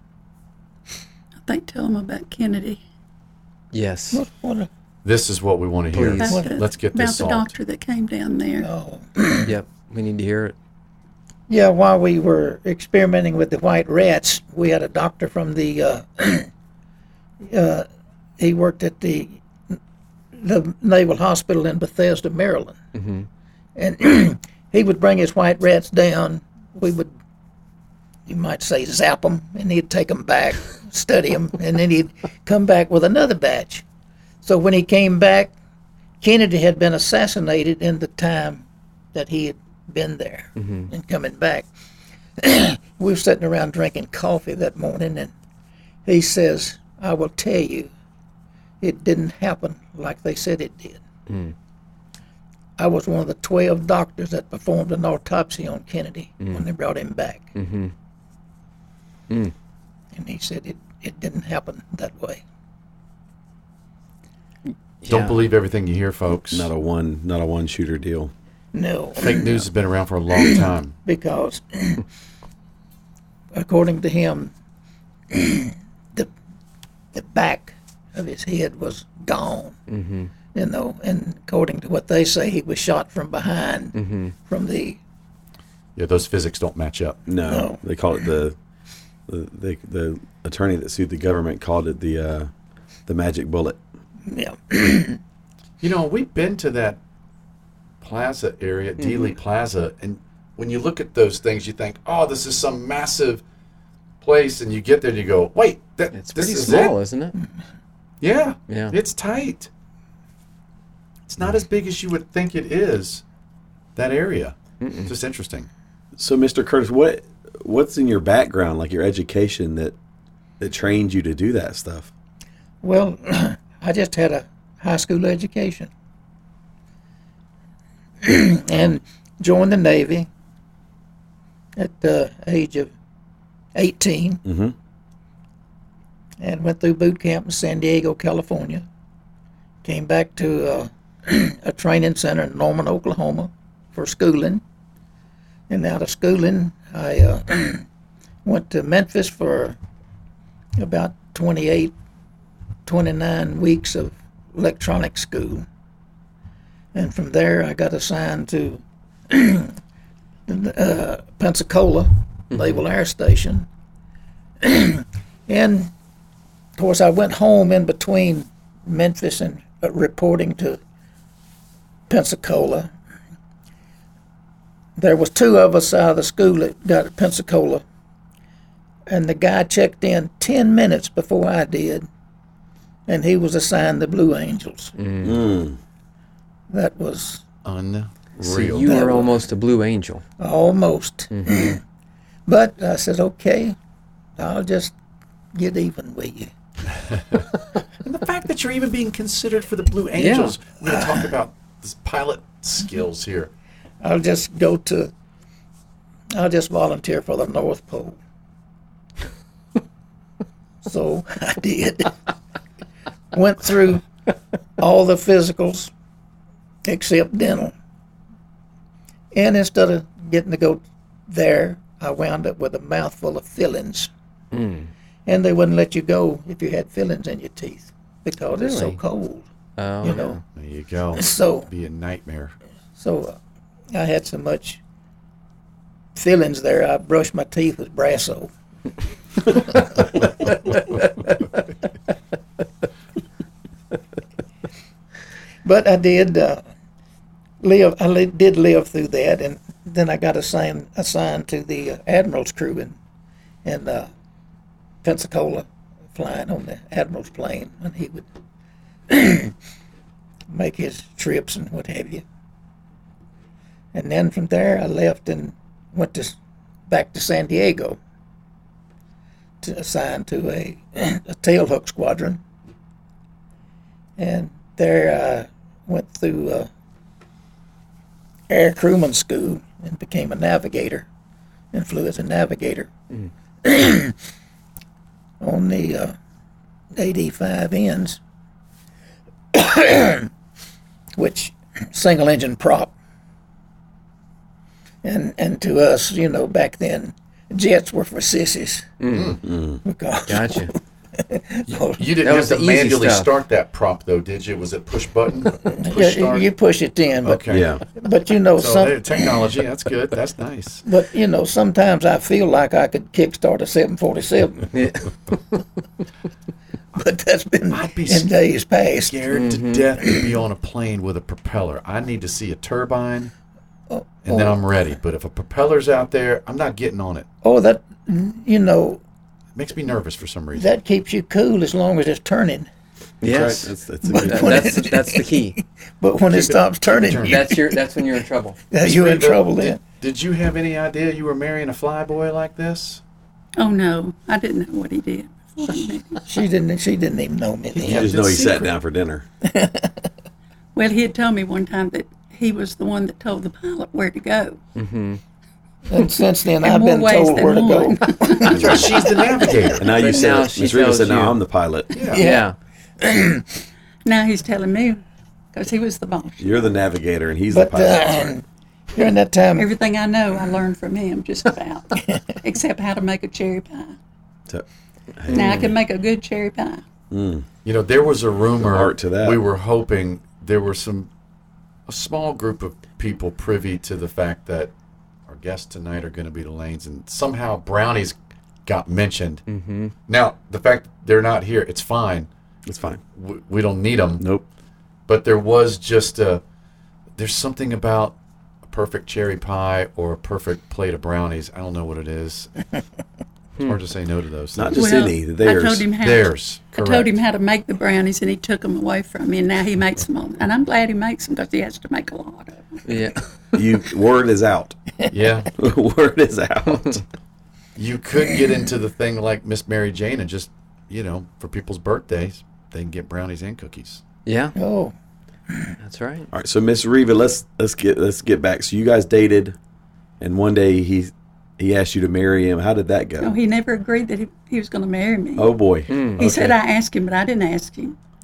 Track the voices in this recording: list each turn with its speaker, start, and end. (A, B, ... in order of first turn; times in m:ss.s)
0:01.4-0:02.8 A
0:03.7-0:04.2 B
0:04.1-0:04.7 C
0:05.0-0:07.5 D
0:05.9-0:06.4 B
0:06.2-0:08.7 A
0:08.6-0:09.5 C
0:09.4-0:10.6 B
0:11.5-0:16.5 C
0:17.4-0:17.9 C
0:18.4-0:19.4 C
0:20.3-0:22.8 C
0:22.9-0:23.3 B
0:23.8-0:27.1 C
0:28.3-0:33.8 C
0:34.4-0:35.5 C
0:36.2-0:41.7 C
0:40.6-0:40.9 B
0:42.4-0:45.3 C
0:46.0-0:47.9 C
0:48.8-0:51.0 C
0:51.3-0:51.5 B
0:52.8-0:57.5 C
0:57.6-0:57.9 B
1:00.1-1:02.4 C
1:04.7-1:05.4 B
1:05.1-1:06.7 D
1:06.5-1:08.3 E
1:08.7-1:09.6 C
1:09.2-1:11.0 D
1:10.3-1:12.0 C
1:13.5-1:14.5 C
1:15.3-1:16.3 C
1:17.1-1:19.8 C
1:19.9-1:20.3 B
1:20.5-1:25.0 C
1:23.9-1:24.4 B
1:26.0-1:27.2 D
1:27.3-1:28.6 E
1:27.4-1:27.8 C
1:29.3-1:32.5 E
1:33.1-1:33.8 E
1:34.3-1:35.2 C
1:35.8-1:37.0 D
1:38.0-1:43.4 D
1:39.0-1:39.3 B
1:44.2-1:47.0 D
1:46.1-1:47.4 B
1:48.2-1:49.7 D
1:48.7-1:49.0 B
1:51.3-1:53.2 D
1:54.0-1:54.6 D
1:54.8-1:55.1 B
1:55.1-1:55.7 D
1:56.2-2:00.0 E
2:00.6-2:02.1 E
2:02.8-2:05.9 C
2:08.2-2:10.3 C
2:11.8-2:12.9 C
2:13.8-2:14.4 C
2:14.4-2:14.8 E
2:16.4-2:18.9 C
2:19.8-2:24.6 C
2:25.7-2:27.8 C
2:28.4-2:29.8 C
2:30.8-2:31.9 C
2:32.9-2:35.7 C
2:36.9-2:39.8 C
2:40.5-2:43.7 C
2:42.5-2:42.8 B
2:44.6-2:45.9 C
2:46.8-2:50.8 C
2:52.1-2:52.9 C
2:55.0-2:57.8 C
2:59.1-3:02.1 C
3:03.1-3:04.9 C
3:05.0-3:05.4 B
3:05.2-3:05.8 E
3:06.7-3:07.4 C
3:07.6-3:09.1 D
3:08.4-3:10.2 B
3:08.8-3:09.3 C
3:10.4-3:11.8 C
3:12.5-3:13.8 C
3:14.4-3:14.9 C
3:15.5-3:16.5 C
3:18.0-3:23.5 D
3:20.1-3:20.6 B
3:24.0-3:25.1 C
3:26.3-3:28.2 C
3:30.8-3:32.2 C
3:33.3-3:34.1 C
3:34.8-3:35.9 C
3:36.8-3:37.8 C
3:39.3-3:44.1 C
3:44.5-3:44.9 B
3:45.3-3:49.4 C
3:48.6-3:49.0 B
3:49.8-3:50.4 B
3:50.0-3:50.4 C
3:50.5-3:52.6 D
3:51.2-3:51.7 C
3:53.0-3:53.4 C
3:53.9-3:54.8 C
3:56.2-3:58.5 C
3:59.7-4:00.2 C
4:05.6-4:06.6 C
4:07.6-4:13.0 C
4:13.6-4:14.1 C
4:15.0-4:18.3 C
4:19.1-4:19.5 C
4:20.5-4:22.2 C
4:23.9-4:26.4 C
4:26.9-4:28.0 C
4:29.6-4:32.4 C
4:34.2-4:36.7 C
4:38.5-4:41.1 C
4:41.7-4:42.9 C
4:43.6-4:44.2 C
4:45.4-4:46.2 C
4:46.9-4:48.2 C
4:49.5-4:50.3 C
4:51.2-4:52.9 C
4:55.0-4:58.9 C
4:59.0-4:59.4 B
4:59.1-4:59.4 D
4:59.4-4:59.8 E
4:59.8-5:02.0 C
5:00.3-5:00.7 B
5:01.8-5:06.5 D
5:02.2-5:03.3 B
5:05.6-5:09.5 C
5:07.2-5:07.8 D
5:07.5-5:07.8 E
5:08.6-5:10.8 D
5:10.8-5:14.8 C
5:14.7-5:15.1 B
5:17.0-5:19.2 C
5:17.7-5:18.3 D
5:19.0-5:23.3 D
5:19.3-5:19.9 B
5:23.9-5:24.6 C
5:24.3-5:27.3 D
5:27.4-5:29.0 C
5:29.6-5:30.7 D
5:30.6-5:32.7 C
5:33.2-5:35.6 B
5:33.2-5:34.8 E
5:34.1-5:37.8 C
5:36.3-5:37.5 D
5:37.2-5:38.6 B
5:38.7-5:39.8 C
5:38.8-5:43.0 D
5:43.6-5:46.2 A
5:46.2-5:48.1 C
5:47.8-5:49.3 E
5:47.8-5:48.7 D
5:49.4-5:50.0 C
5:50.8-5:54.6 A
5:54.8-5:55.2 B
5:55.9-5:59.8 C
5:56.6-5:58.8 A
5:58.4-5:59.9 D
5:58.5-5:58.9 E
5:59.8-6:01.9 E
5:59.9-6:01.4 B
6:01.9-6:02.2 D
6:02.1-6:02.5 C
6:02.1-6:02.6 B
6:03.0-6:03.5 C
6:04.0-6:06.7 A
6:06.4-6:08.2 E
6:07.5-6:09.7 C
6:09.6-6:14.0 A
6:14.5-6:15.7 E
6:15.3-6:15.8 B
6:15.3-6:16.8 A
6:17.1-6:17.5 E
6:17.6-6:21.1 D
6:18.6-6:19.4 E
6:21.9-6:24.7 D
6:25.3-6:28.2 D
6:28.7-6:29.4 D
6:29.5-6:29.9 B
6:30.1-6:32.3 D
6:32.7-6:33.0 E
6:33.2-6:34.2 D
6:34.2-6:34.5 E
6:35.1-6:36.4 D
6:37.2-6:42.5 D
6:43.6-6:44.9 D
6:44.6-6:45.9 E
6:44.7-6:52.8 A
6:46.0-6:47.2 D
6:52.9-6:53.6 B
6:53.6-6:54.8 E
6:55.1-6:55.5 D
6:55.6-6:57.0 E
6:56.7-6:57.0 B
6:57.8-7:04.0 D
7:04.3-7:04.6 B
7:04.6-7:04.9 C
7:05.8-7:06.3 B
7:06.3-7:09.6 E
7:10.2-7:13.4 E
7:13.2-7:15.5 A
7:15.4-7:16.6 E
7:15.9-7:16.2 B
7:16.2-7:18.0 A